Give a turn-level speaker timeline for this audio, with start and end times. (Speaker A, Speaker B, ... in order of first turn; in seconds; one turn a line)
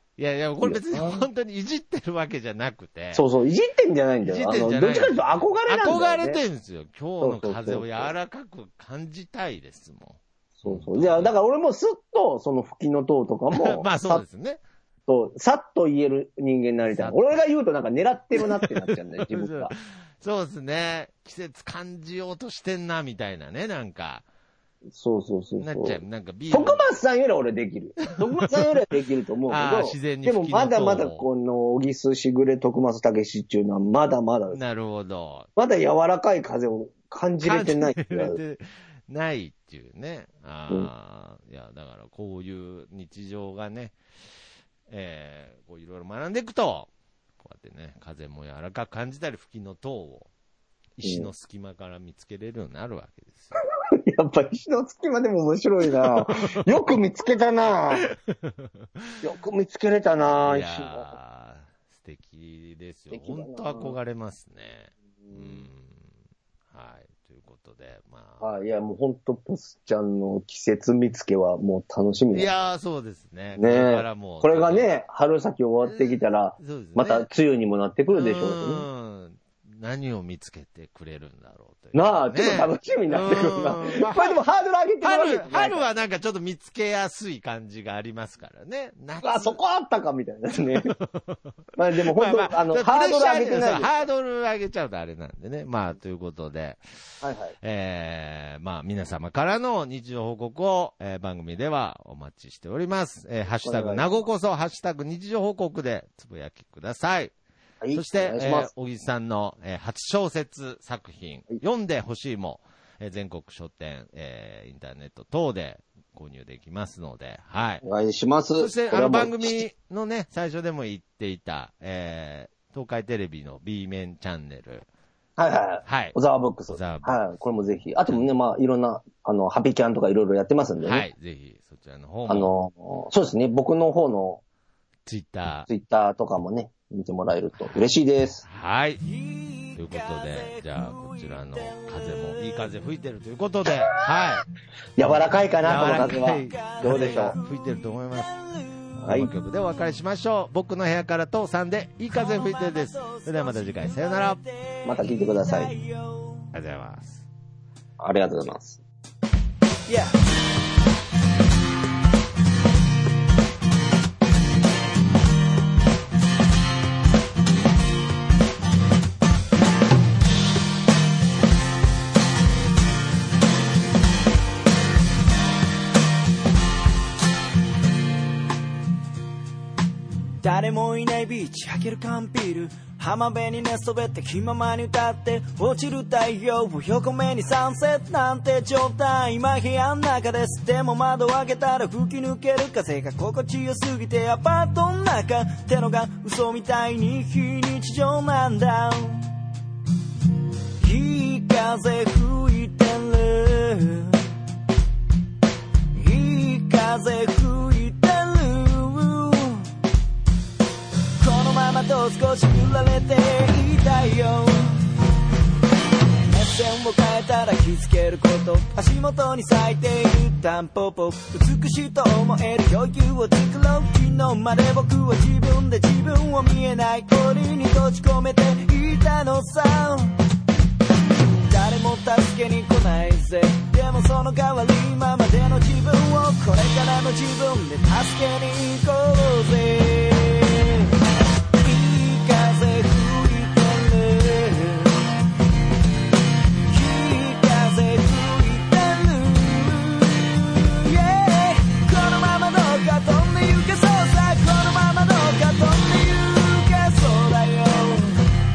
Speaker A: 0.2-3.2
Speaker B: 0.6-1.2
Speaker B: 3.1-6.4
Speaker A: 4.2-11.3
Speaker B: 7.2-8.1
Speaker B: 10.6-14.2
Speaker A: 13.5-14.6
Speaker B: 15.1-19.7
Speaker A: 16.9-17.3
Speaker A: 18.4-24.2
Speaker B: 24.9-34.6
Speaker A: 25.6-26.9
Speaker A: 28.3-28.8
Speaker A: 29.5-31.2
Speaker A: 34.5-35.5
Speaker B: 35.5-38.4
Speaker A: 37.4-44.0
Speaker A: 44.9-46.9
Speaker A: 47.4-50.3
Speaker A: 51.0-53.5
Speaker B: 51.0-51.3
Speaker B: 53.9-58.1
Speaker A: 55.9-57.0
Speaker A: 58.1-58.9
Speaker B: 59.2-61.1
Speaker A: 60.5-66.0
Speaker B: 63.1-64.0
Speaker A: 66.7-68.4
Speaker B: 68.4-72.5
Speaker A: 72.3-74.9
Speaker B: 73.5-78.8
Speaker A: 75.9-77.3
Speaker A: 78.1-84.4
Speaker B: 81.9-85.8
Speaker A: 85.0-89.6
Speaker B: 89.2-90.9
Speaker A: 90.7-91.5
Speaker B: 91.8-94.1
Speaker A: 92.1-107.3
Speaker B: 97.2-97.5
Speaker B: 103.5-104.3
Speaker B: 107.8-108.7
Speaker A: 107.9-117.8
Speaker B: 117.8-119.7
Speaker A: 118.6-124.8
Speaker B: 125.4-131.1
Speaker A: 125.8-126.2
Speaker A: 126.7-127.3
Speaker A: 130.8-132.5
Speaker B: 132.3-134.4
Speaker A: 135.1-135.7
Speaker B: 135.7-138.4
Speaker A: 137.6-137.8
Speaker A: 138.4-139.0
Speaker C: 139.0-142.8
Speaker A: 139.8-144.4
Speaker B: 143.7-144.2
Speaker B: 145.0-147.4
Speaker A: 145.0-148.3
Speaker C: 145.9-147.5
Speaker C: 148.1-148.8
Speaker B: 149.0-149.3
Speaker A: 149.1-154.4
Speaker C: 152.1-156.5
Speaker B: 154.8-155.7
Speaker A: 156.5-157.2
Speaker B: 158.0-158.8
Speaker C: 159.9-160.1
Speaker C: 180.4-199.3
Speaker C: 200.8-204.2
Speaker C: 205.9-209.7
Speaker C: 211.2-214.9
Speaker C: 216.3-230.2
Speaker C: 231.4-240.9
Speaker C: 241.6-245.1
Speaker C: 246.7-258.2